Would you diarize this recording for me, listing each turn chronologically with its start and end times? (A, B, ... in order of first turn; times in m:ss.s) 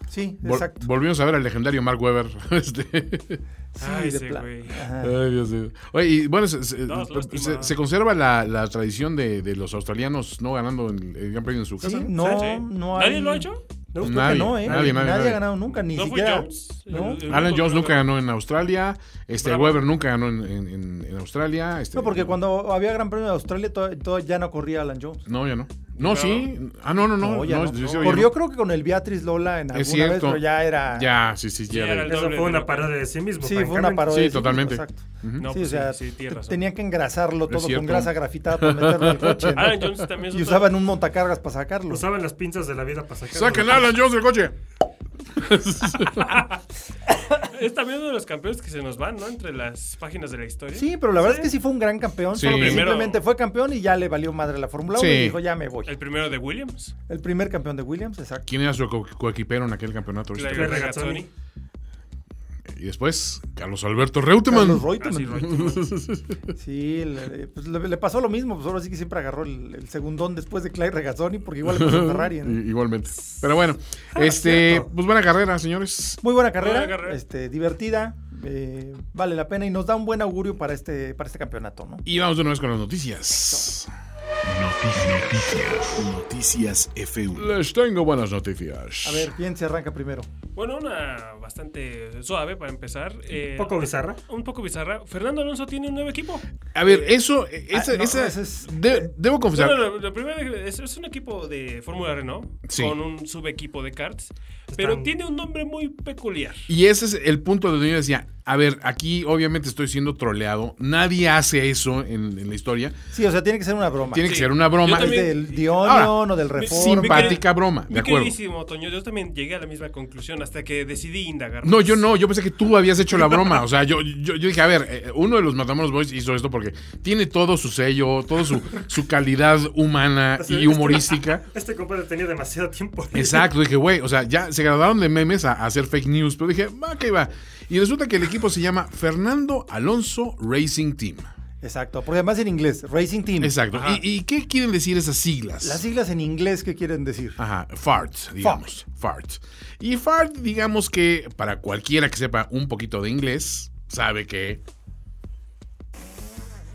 0:00.1-0:00.9 A
0:00.4-0:03.4 B
0:03.7-0:05.2 A
0:03.8-0:04.8 C
0:05.0-0:12.1 B
0:06.8-0:07.7 C
0:11.8-0:13.5 A
0:12.2-0:12.5 D
0:12.2-0:13.6 C
0:13.9-0:15.0 D
0:14.0-0:15.4 B
0:14.0-0:17.3 A
0:15.8-0:18.0 C
0:17.3-0:22.4 B
0:19.4-0:19.8 C
0:21.9-0:25.2 A
0:25.2-0:28.3 B
0:26.0-0:26.5 C
0:27.2-0:31.1 A
0:27.7-0:28.2 C
0:29.7-0:32.1 B
0:31.7-0:33.0 C
0:32.0-0:34.2 D
0:33.4-0:42.0 A
0:34.1-0:35.4 B
0:35.4-0:36.6 C
0:37.5-0:39.9 B
0:39.5-0:40.8 C
0:41.9-0:43.9 D
0:43.3-0:44.6 B
0:45.4-0:46.3 B
0:47.4-0:51.4 C
0:50.7-0:56.0 A
0:52.3-0:52.9 B
0:52.4-0:53.2 C
0:54.9-0:55.4 B
0:55.8-0:56.9 C
0:57.1-0:58.5 A
0:58.4-1:00.9 B
1:00.3-1:01.3 C
1:00.5-1:01.3 D
1:02.7-1:06.5 B
1:04.4-1:05.5 A
1:05.0-1:05.8 C
1:06.6-1:12.6 A
1:11.6-1:16.2 B
1:14.1-1:14.9 A
1:16.2-1:22.0 A
1:16.6-1:17.2 C
1:22.0-1:23.9 B
1:23.3-1:23.7 A
1:24.4-1:27.5 E
1:27.3-1:29.3 B
1:29.0-1:30.3 A
1:30.5-1:36.4 C
1:33.6-1:34.2 D
1:36.7-1:39.8 B
1:37.7-1:39.0 A
1:39.5-1:46.7 C
1:42.7-1:42.9 B
1:44.7-1:45.1 D
1:46.7-1:53.0 B
1:53.1-1:57.4 A
1:54.1-1:58.3 B
1:54.2-1:55.7 C
1:56.6-2:02.0 C
2:01.6-2:11.4 B
2:10.4-2:13.5 D
2:13.1-2:21.3 B
2:21.6-2:23.6 A
2:23.4-2:25.8 B
2:23.7-2:24.0 C
2:25.6-2:27.4 A
2:27.4-2:34.6 B